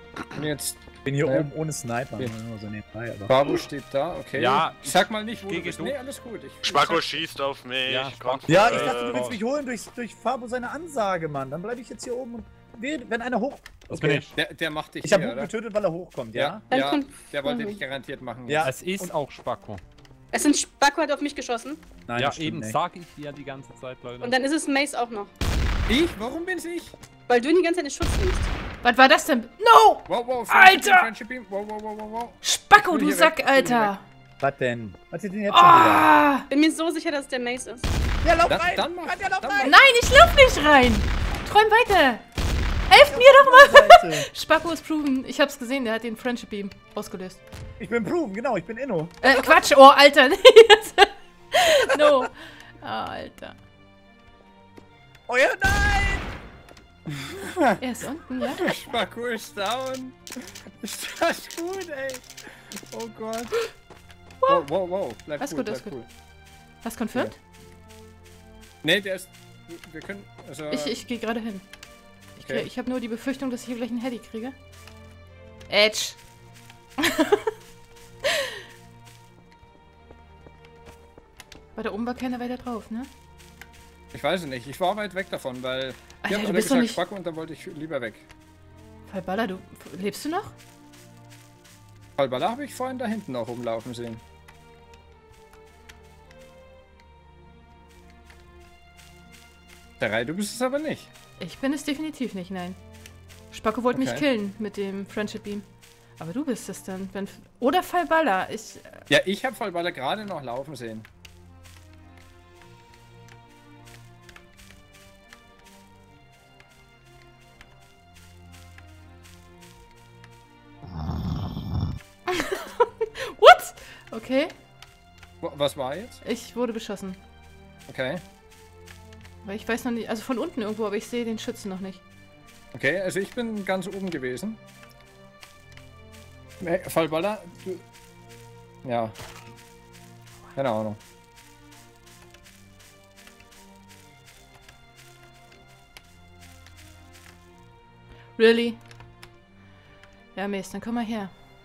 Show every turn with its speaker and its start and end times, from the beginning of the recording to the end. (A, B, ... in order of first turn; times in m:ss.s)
0:00.3-0:01.5 A
0:01.0-0:03.5 B
0:03.3-0:07.2 A
0:04.4-0:06.0 C
0:06.6-0:09.2 D
0:07.9-0:09.4 C
0:08.5-0:14.3 B
0:13.9-0:14.4 C
0:14.4-0:15.5 A
0:15.0-0:16.6 B
0:16.3-0:18.7 A
0:16.7-0:17.8 E
0:18.5-0:19.1 B
0:18.6-0:19.8 C
0:20.3-0:21.8 E
0:22.1-0:22.8 B
0:22.2-0:24.4 C
0:24.2-0:25.3 E
0:25.9-0:27.0 A
0:27.3-0:28.5 E
0:28.8-0:31.1 F
0:30.1-0:33.9 A
0:32.4-0:34.0 F
0:34.4-0:36.1 B
0:35.5-0:36.5 F
0:36.5-0:37.8 E
0:38.2-0:39.8 B
0:38.5-0:39.7 A
0:39.6-0:42.2 F
0:42.9-0:47.4 F
0:43.0-0:44.3 B
0:47.8-0:49.5 B
0:49.2-0:53.6 F
0:55.3-0:56.3 B
0:57.1-0:57.8 A
0:57.8-0:58.8 F
0:58.4-1:02.3 A
1:02.9-1:03.7 A
1:04.4-1:04.7 F
1:04.5-1:06.1 A
1:05.4-1:06.0 F
1:06.8-1:07.4 F
1:08.8-1:11.0 A
1:10.7-1:11.6 F
1:12.4-1:14.6 F
1:12.4-1:12.7 A
1:15.7-1:16.2 F
1:17.0-1:17.4 F
1:21.8-1:23.1 F
1:24.1-1:28.2 A
1:26.2-1:27.0 F
1:29.1-1:30.5 F
1:32.2-1:34.2 A
1:40.0-1:41.1 A
1:41.4-1:42.8 F
1:43.5-1:45.6 F
1:43.9-1:44.2 A
1:46.2-1:49.0 F
1:49.1-1:51.1 A
2:02.3-2:04.5 F
2:05.4-2:06.2 A
2:06.2-2:07.2 F
2:07.9-2:08.2 A
2:09.4-2:12.0 F
2:12.7-2:14.6 A
2:16.6-2:17.8 A
2:18.8-2:19.1 A
2:20.5-2:21.0 A
2:28.4-2:28.8 F
2:30.4-2:31.3 F